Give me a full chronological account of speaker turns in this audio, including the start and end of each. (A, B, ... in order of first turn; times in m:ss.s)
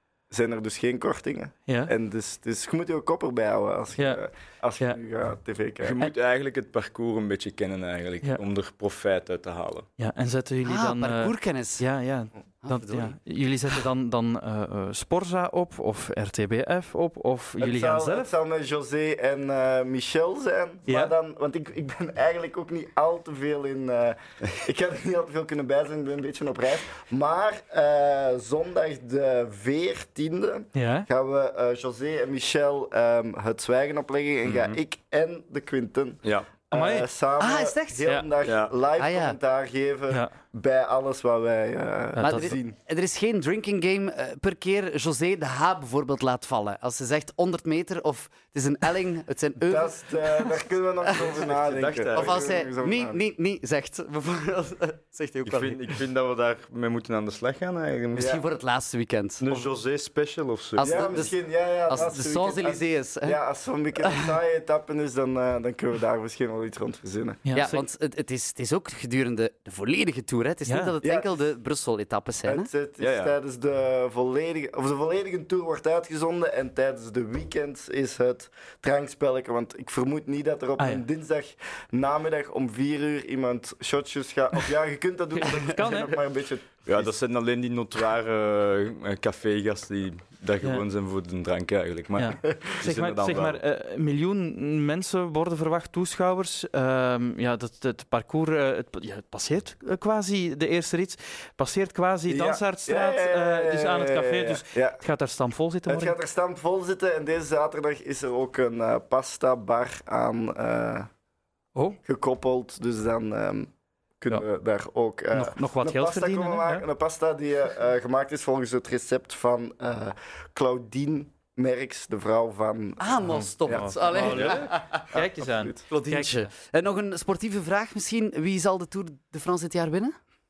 0:00.3-0:06.1 A
0:05.8-0:09.9 B
0:10.0-0:18.3 C
0:10.6-0:11.8 D
0:12.6-0:13.2 D
0:17.6-0:42.8 A
0:20.9-0:21.1 C
0:30.8-0:31.1 C
0:34.4-0:34.8 B
0:36.2-0:36.6 B
0:36.7-0:37.1 C
0:37.4-0:38.1 D
0:38.4-0:38.8 B
0:39.0-0:39.4 D
0:42.2-0:42.6 C
0:42.2-0:51.4 D
0:49.7-0:53.2 A
0:51.4-0:52.4 B
0:52.1-0:55.8 D
0:55.5-0:58.3 B
0:58.2-0:59.7 D
0:58.2-0:58.4 A
0:59.4-1:01.0 B
1:00.8-1:03.4 D
1:00.8-1:07.4 A
1:07.5-1:07.8 C
1:07.6-1:12.7 D
1:10.7-1:10.9 C
1:11.0-1:11.4 A
1:12.4-1:27.1 A
1:13.0-1:13.4 B
1:20.8-1:21.0 C
1:25.4-1:26.1 C
1:26.9-1:33.6 B
1:32.2-1:46.2 C
1:42.3-1:45.0 A
1:45.9-1:51.1 A
1:52.0-2:04.4 A
1:55.3-1:56.8 C
2:03.0-2:05.1 D
2:03.3-2:06.5 C
2:04.3-2:04.6 B
2:05.1-2:05.8 A
2:05.9-2:10.2 D